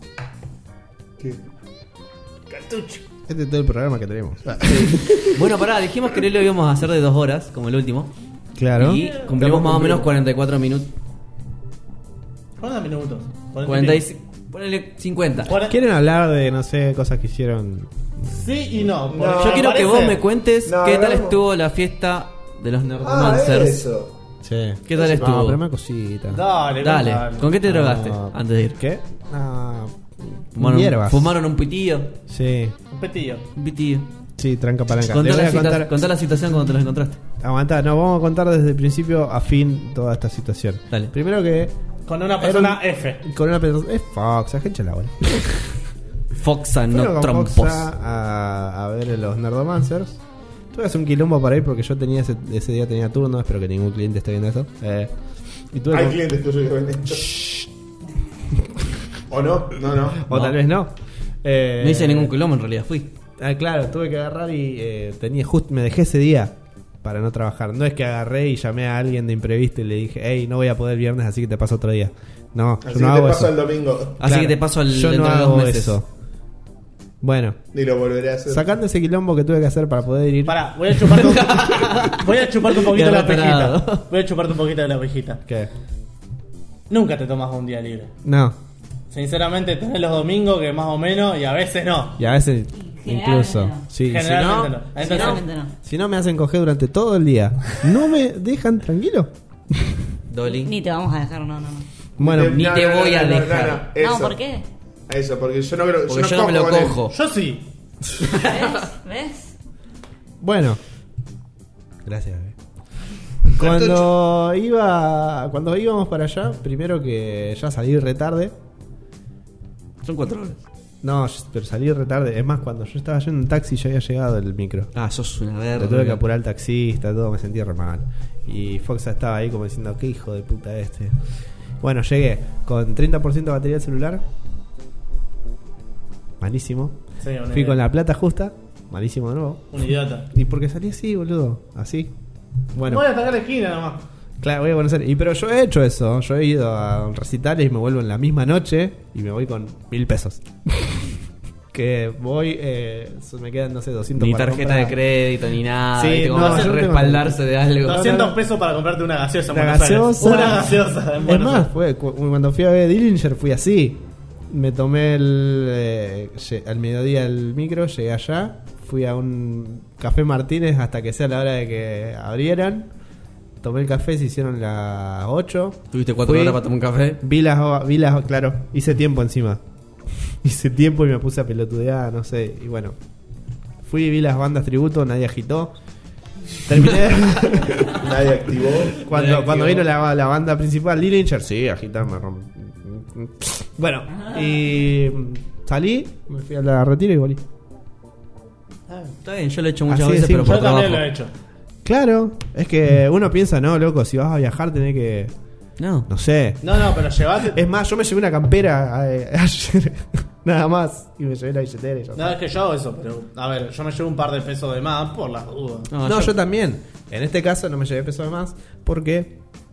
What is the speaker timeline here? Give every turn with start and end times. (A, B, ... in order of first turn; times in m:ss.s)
0:02.5-0:03.0 A
0:03.3-0:05.4 B
0:04.8-0:08.1 C
0:08.6-0:09.1 B
0:08.8-0:10.9 C
0:09.4-0:10.1 A
0:12.6-0:14.0 D
0:13.6-0:15.5 C
0:15.5-0:15.8 D
0:15.6-0:18.3 B
0:18.3-0:20.2 D
0:19.1-0:21.4 A
0:19.4-0:23.8 C
0:23.0-0:24.1 A
0:24.4-0:26.4 B
0:24.9-0:25.6 C
0:25.0-0:25.2 A
0:26.3-0:27.5 D
0:26.8-0:28.8 C
0:27.6-0:31.4 B
0:30.6-0:32.2 C
0:32.3-0:32.8 B
0:32.9-0:33.5 D
0:33.6-0:34.1 C
0:34.4-0:35.9 B
0:35.0-0:37.2 C
0:37.4-0:41.7 B
0:42.1-0:43.2 D
0:42.4-0:45.8 B
0:46.4-0:47.9 C
0:46.9-0:50.2 B
0:50.7-0:55.1 B
0:55.7-0:56.2 B
0:55.9-0:57.4 A
0:57.1-0:57.7 B
0:59.3-1:00.2 A
1:00.2-1:02.3 B
1:00.3-1:00.6 C
1:01.8-1:03.1 C
1:03.4-1:13.6 B
1:12.8-1:14.2 A
1:14.2-1:16.0 C
1:14.2-1:16.1 B
1:17.2-1:17.6 B
1:17.7-1:18.7 A
1:18.5-1:20.7 B
1:20.5-1:25.4 D
1:21.1-1:24.0 C
1:26.9-1:28.1 D
1:28.2-1:28.6 B
1:29.1-1:32.2 D
1:32.2-1:34.9 B
1:32.8-1:33.8 E
1:34.0-1:35.4 D
1:35.0-1:35.7 E
1:35.1-1:35.4 C
1:35.8-1:40.0 B
1:40.3-1:40.7 C
1:40.4-1:41.9 E
1:42.2-1:42.7 B
1:42.2-1:44.4 A
1:42.3-1:43.9 C
1:44.0-1:44.6 E
1:45.1-1:47.0 A
1:46.1-1:47.2 C
1:47.1-1:47.7 D
1:48.2-1:48.8 C
1:48.3-1:49.5 E
1:50.4-1:50.8 B
1:52.0-1:52.6 B
1:53.5-1:58.6 B
1:53.5-1:54.1 A
2:00.0-2:00.6 C
2:01.0-2:04.9 B
2:05.0-2:06.2 C
2:05.8-2:11.3 B
2:11.8-2:14.2 B
2:16.4-2:22.1 B
2:17.2-2:17.8 D
2:19.7-2:20.3 D
2:22.7-2:23.1 B
2:22.9-2:24.0 D
2:24.4-2:31.2 B
2:31.7-2:35.0 B
2:34.2-2:38.2 C
2:36.0-2:38.4 B
2:36.4-2:36.8 D
2:37.8-2:41.7 D
2:39.5-2:52.9 B
2:53.6-2:56.6 B
2:55.9-2:57.2 C
2:57.2-2:59.6 B
3:00.2-3:03.0 B
3:03.8-3:05.8 B
3:06.6-3:08.2 B
3:07.7-3:09.0 A
3:09.0-3:17.4 B
3:09.0-3:09.9 C
3:18.9-3:19.2 D
3:19.2-3:21.1 C
3:19.9-3:20.7 B
3:20.4-3:21.3 D
3:21.8-3:25.3 B
3:25.8-3:26.1 C
3:26.1-3:32.4 B
3:26.6-3:27.6 D
3:32.2-3:35.9 D
3:35.9-3:36.4 C
3:36.0-3:39.4 B